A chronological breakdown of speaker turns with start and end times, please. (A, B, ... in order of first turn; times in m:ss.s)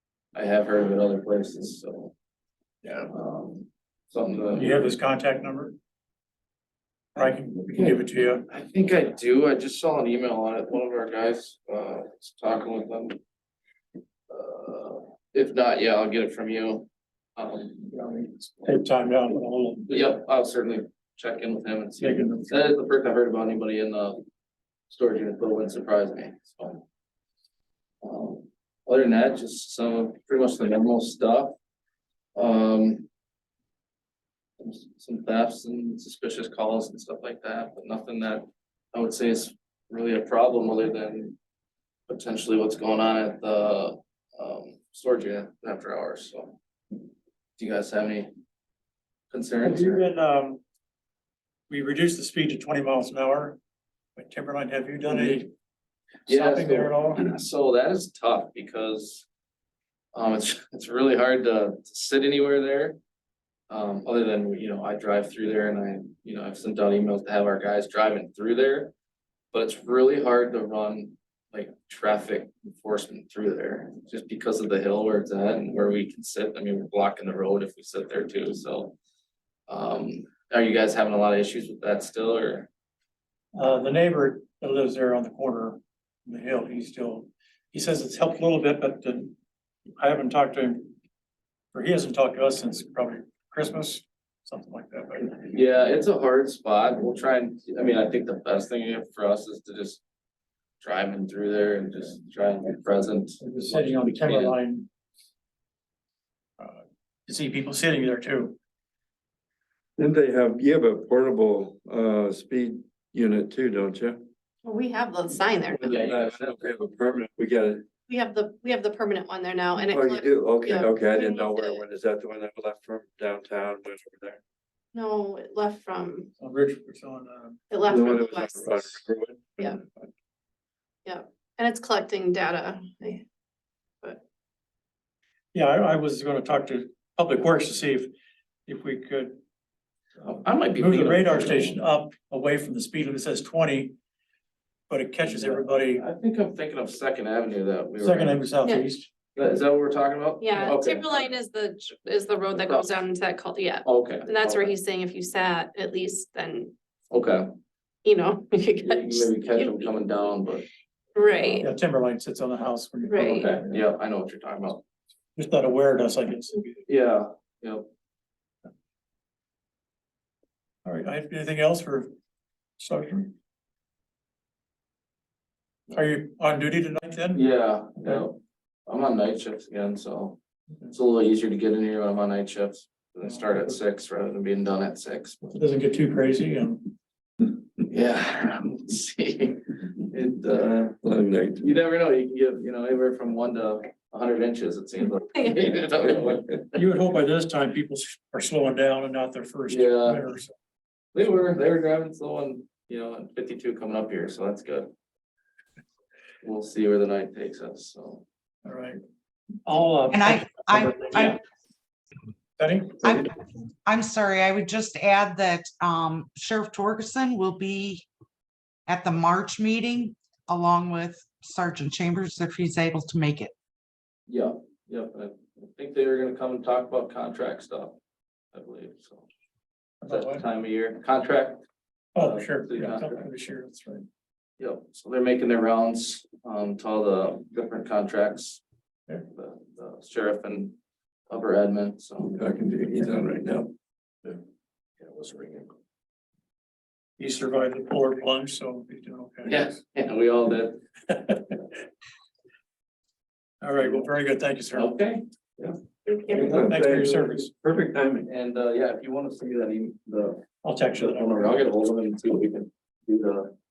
0:00.3-0:02.1 A
0:02.8-0:04.9 A
0:04.6-0:05.8 B
0:07.2-0:08.4 B
0:08.5-0:13.2 A
0:14.3-0:17.9 A
0:17.9-0:20.1 B
0:19.9-0:24.2 A
0:22.0-0:22.6 B
0:24.9-0:26.8 A
0:28.0-0:31.5 A
0:32.3-0:33.1 A
0:34.6-0:41.4 A
0:42.1-0:46.6 A
0:47.6-0:48.3 A
0:49.3-0:50.0 A
0:49.6-0:50.6 B
0:51.7-0:53.6 B
0:54.2-0:55.5 B
0:55.1-0:55.4 A
0:56.3-0:57.3 B
0:56.3-0:59.2 A
1:00.1-1:03.0 A
1:03.7-1:08.9 A
1:09.5-1:19.0 A
1:19.7-1:22.7 A
1:23.5-1:29.3 B
1:30.0-1:31.0 B
1:31.7-1:35.4 B
1:35.4-1:40.0 A
1:40.8-1:44.6 A
1:43.4-1:44.9 B
1:46.6-1:48.6 B
1:50.0-1:54.2 C
1:54.6-1:55.9 D
1:55.7-1:57.8 C
1:55.8-1:56.7 A
1:58.1-2:01.8 D
1:59.9-2:04.4 C
2:04.9-2:06.3 D
2:06.4-2:07.6 B
2:07.7-2:09.0 D
2:07.8-2:09.6 C
2:11.0-2:13.2 D
2:15.5-2:18.1 B
2:18.7-2:19.4 B
2:20.2-2:21.8 A
2:20.7-2:23.9 B
2:24.9-2:26.0 B
2:25.2-2:28.4 A
2:28.0-2:29.1 B
2:28.6-2:28.9 D
2:29.3-2:31.3 A
2:30.4-2:36.7 D
2:32.5-2:33.0 A
2:33.8-2:34.7 A
2:37.1-2:37.5 A
2:38.0-2:40.0 D
2:38.8-2:40.6 A
2:41.1-2:41.7 D
2:41.2-2:41.6 A
2:41.6-2:43.8 B
2:43.0-2:43.5 D
2:43.2-2:44.8 A
2:45.4-2:46.8 B
2:46.9-2:47.9 A
2:50.8-2:52.1 B
2:52.8-2:53.3 B
2:55.9-2:57.4 B
2:57.3-3:05.4 A
2:58.0-2:58.2 B
3:03.2-3:03.7 B
3:05.4-3:06.9 B
3:07.8-3:11.0 A
3:11.0-3:11.8 C
3:11.6-3:16.8 A
3:15.4-3:15.6 D
3:16.7-3:20.5 B
3:19.7-3:20.2 A
3:21.1-3:24.9 A
3:26.4-3:28.2 A
3:28.6-3:29.0 B
3:29.6-3:31.4 B
3:30.1-3:31.4 E
3:32.6-3:33.1 B
3:33.0-3:38.0 E
3:38.9-3:43.5 E
3:44.3-3:48.0 A
3:48.5-3:49.3 A
3:50.0-3:50.4 B
3:50.1-3:51.6 A
3:52.2-3:54.0 B
3:52.2-3:53.3 A
3:54.6-3:58.6 A
3:59.3-4:00.8 A
4:01.3-4:02.3 A
4:02.2-4:03.7 C
4:05.0-4:05.7 A
4:07.2-4:09.8 B
4:09.4-4:10.8 A
4:13.6-4:14.9 B
4:14.7-4:15.2 A
4:16.0-4:16.5 D
4:16.3-4:18.3 C
4:16.3-4:17.5 B
4:18.2-4:23.5 A
4:20.6-4:21.5 B